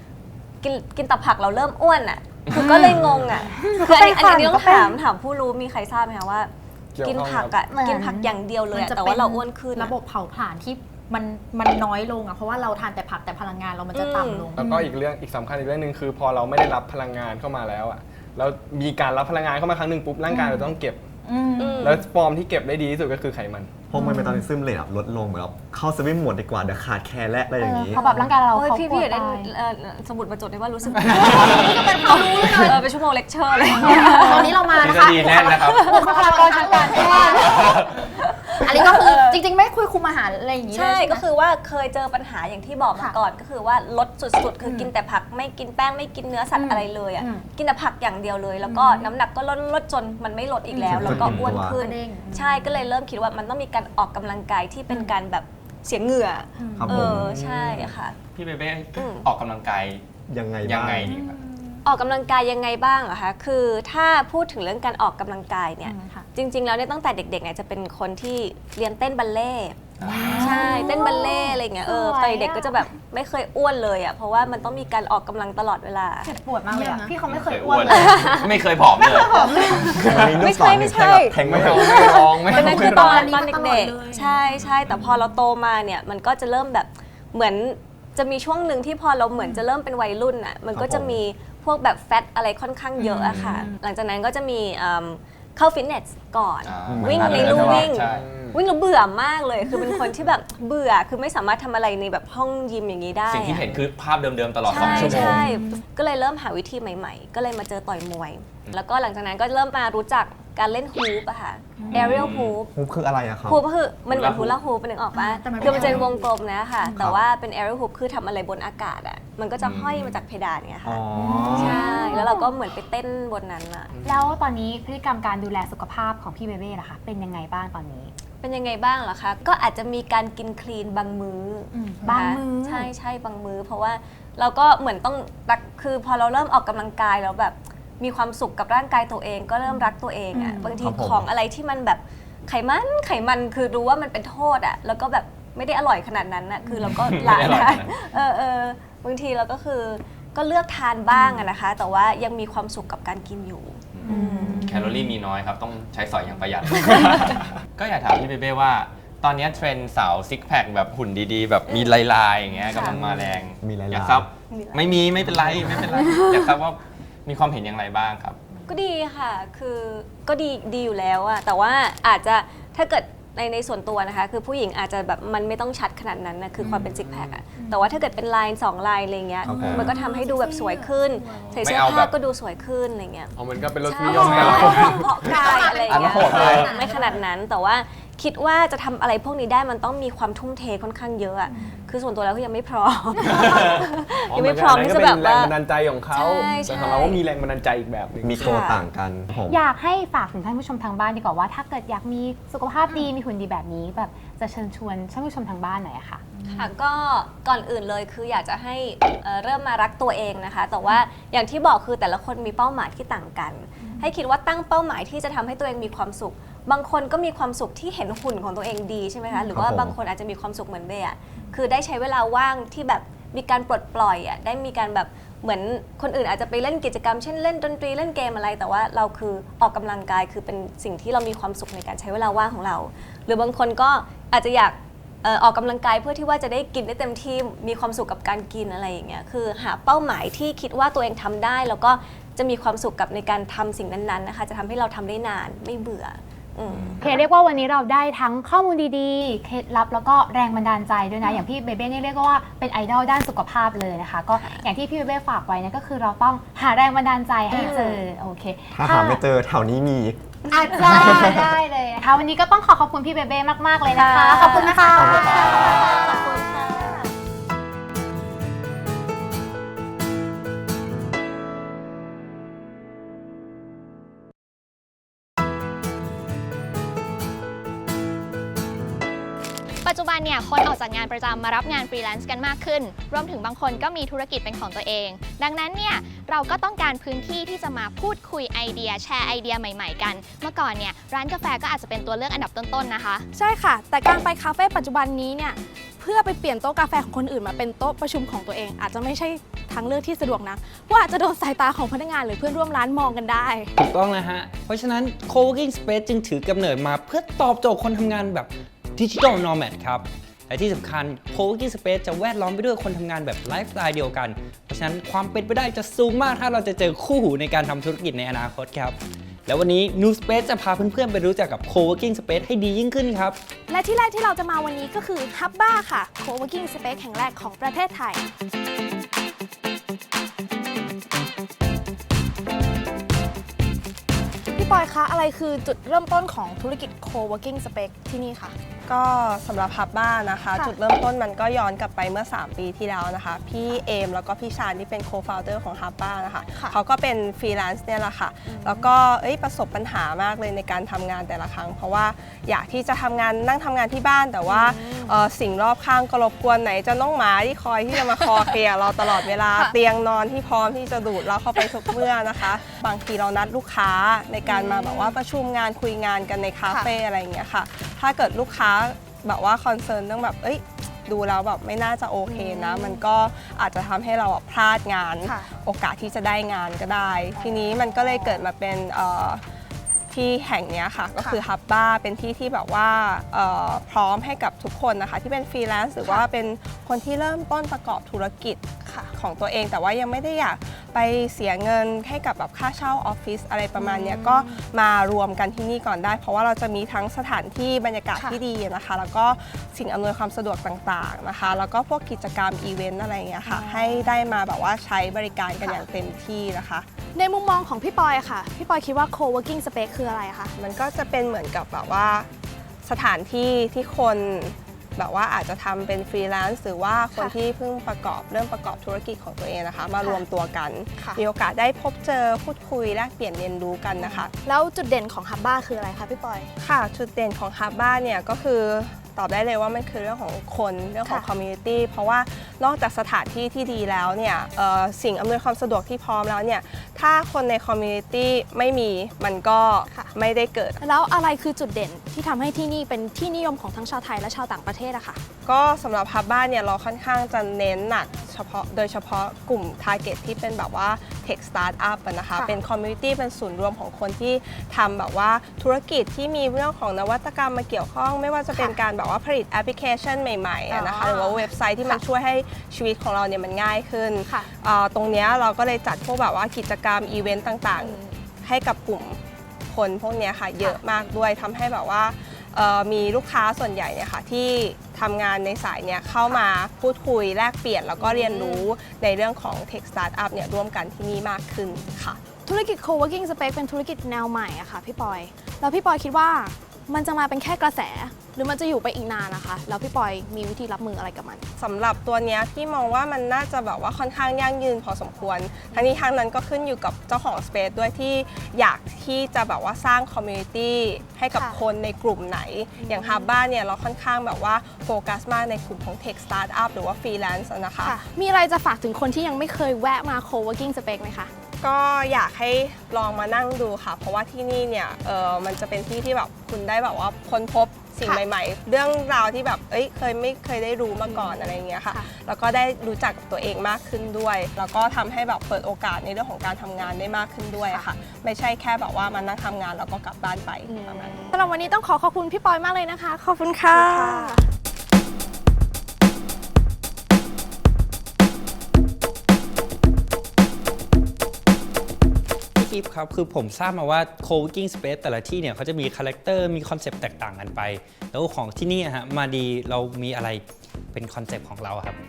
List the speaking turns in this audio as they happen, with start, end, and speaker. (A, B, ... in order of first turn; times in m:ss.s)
0:00.6-0:09.9 A
0:02.5-0:03.3 B
0:03.6-0:05.0 C
0:06.9-0:07.6 D
0:07.7-0:14.9 E
0:13.9-0:14.5 A
0:14.6-0:21.0 D
0:20.3-0:20.7 E
0:21.2-0:22.1 E
0:21.6-0:22.0 A
0:21.8-0:23.8 D
0:23.9-0:28.0 F
0:23.9-0:24.4 E
0:24.0-0:24.3 C
0:27.6-0:29.5 C
0:28.1-0:34.6 A
0:30.9-0:32.8 E
0:33.5-0:37.8 E
0:33.8-0:34.5 C
0:34.8-0:36.1 B
0:35.9-0:37.5 C
0:37.0-0:37.4 A
0:37.4-0:37.9 B
0:38.1-0:39.4 A
0:38.6-0:41.2 E
0:40.7-0:58.2 A
0:44.6-0:44.9 E
0:46.5-0:47.4 E
0:48.6-0:49.1 E
0:50.7-0:52.8 E
0:50.8-0:51.8 F
0:56.6-0:57.1 E
0:56.7-0:57.4 F
0:58.3-1:00.0 B
0:59.0-0:59.3 A
1:00.3-1:01.2 F
1:00.6-1:01.3 B
1:01.1-1:01.8 E
1:01.8-1:16.3 A
1:05.8-1:06.2 E
1:10.0-1:10.7 B
1:10.1-1:11.1 E
1:10.4-1:12.8 C
1:16.2-1:18.1 C
1:16.3-1:20.0 E
1:17.2-1:19.5 B
1:17.9-1:18.5 A
1:19.6-1:43.7 A
1:19.8-1:22.3 F
1:21.4-1:23.4 D
1:22.5-1:25.0 E
1:24.6-1:25.0 B
1:30.7-1:31.2 F
1:33.0-1:33.7 E
1:33.2-1:33.6 B
1:36.6-1:38.3 B
1:36.8-1:37.9 F
1:38.0-1:38.6 D
1:43.3-1:45.5 B
1:44.6-1:52.7 A
1:44.8-1:45.7 E
1:51.8-1:52.2 E
1:51.9-1:52.6 B
1:52.7-1:53.6 F
1:53.4-2:01.0 A
1:54.1-1:54.6 B
1:55.1-1:56.3 E
1:55.6-1:56.1 B
1:56.8-1:57.1 E
1:59.6-2:00.2 B
2:00.8-2:01.8 F
2:01.2-2:02.2 E
2:01.3-2:02.5 C
2:01.6-2:03.9 A
2:04.0-2:08.1 C
2:08.4-2:34.7 A
2:11.8-2:12.3 E
2:12.0-2:12.9 C
2:19.7-2:20.8 E
2:20.8-2:21.3 F
2:26.9-2:27.9 B
2:31.1-2:31.5 E
2:33.9-2:48.4 B
2:34.1-2:34.6 C
2:34.1-2:34.6 E
2:42.7-2:43.0 A
2:43.6-2:44.3 F
2:44.5-2:45.0 A
2:45.2-2:45.9 F
2:48.7-3:15.5 A
2:56.6-2:56.9 E
2:56.7-2:57.4 D
2:59.4-2:59.9 F
2:59.4-2:59.9 B
2:59.7-3:01.5 E
3:01.5-3:02.1 B
3:03.3-3:06.8 D
3:04.1-3:07.2 E
3:04.3-3:04.7 B
3:06.2-3:06.7 B
3:14.3-3:18.5 D
3:16.1-3:17.2 A
3:18.2-3:19.6 F
3:18.4-3:18.8 A
3:19.5-3:26.2 C
3:26.3-3:26.7 E
3:26.5-4:07.1 A
3:39.5-3:40.0 F
4:07.0-4:19.2 C
4:17.5-4:18.0 A
4:18.7-4:20.2 F
4:20.5-4:26.4 C
4:21.0-4:21.5 F
4:23.9-4:25.9 A
4:24.4-4:26.9 E
4:25.0-4:25.7 F
4:25.2-4:26.1 B
4:39.8-4:53.3 G
4:53.3-5:03.7 H
5:03.8-5:23.4 I
5:23.7-5:28.2 H
5:34.5-5:38.6 H
5:38.8-6:19.4 J
5:46.5-5:46.8 H
5:48.5-5:48.9 H
5:54.4-5:55.2 H
5:57.9-5:58.5 H
6:01.6-6:01.9 H
6:04.4-6:05.2 H
6:06.7-6:06.9 H
6:12.3-6:13.0 H
6:17.4-6:18.4 H
6:20.1-6:46.9 J
6:28.8-6:29.1 H
6:33.8-6:34.6 H
6:38.1-6:38.4 H
6:43.4-6:44.1 H
6:47.1-6:50.5 H
6:50.6-6:52.3 J
6:52.8-7:04.3 J
7:01.0-7:01.2 H
7:04.0-7:06.5 H
7:06.6-7:20.8 J
7:19.9-7:20.1 H
7:20.8-7:25.2 H
7:25.4-8:02.2 J
7:40.7-7:42.0 H
7:58.0-7:58.6 H
8:02.3-8:11.4 H
8:11.6-8:28.0 J
8:21.3-8:21.6 H
8:22.8-8:23.3 H
8:27.8-8:31.3 H
8:31.6-8:51.4 J
8:41.0-8:42.1 H
8:47.6-8:47.8 H
8:50.6-8:54.4 H
8:53.7-8:54.4 J
9:02.6-9:10.4 I
9:10.9-9:12.0 I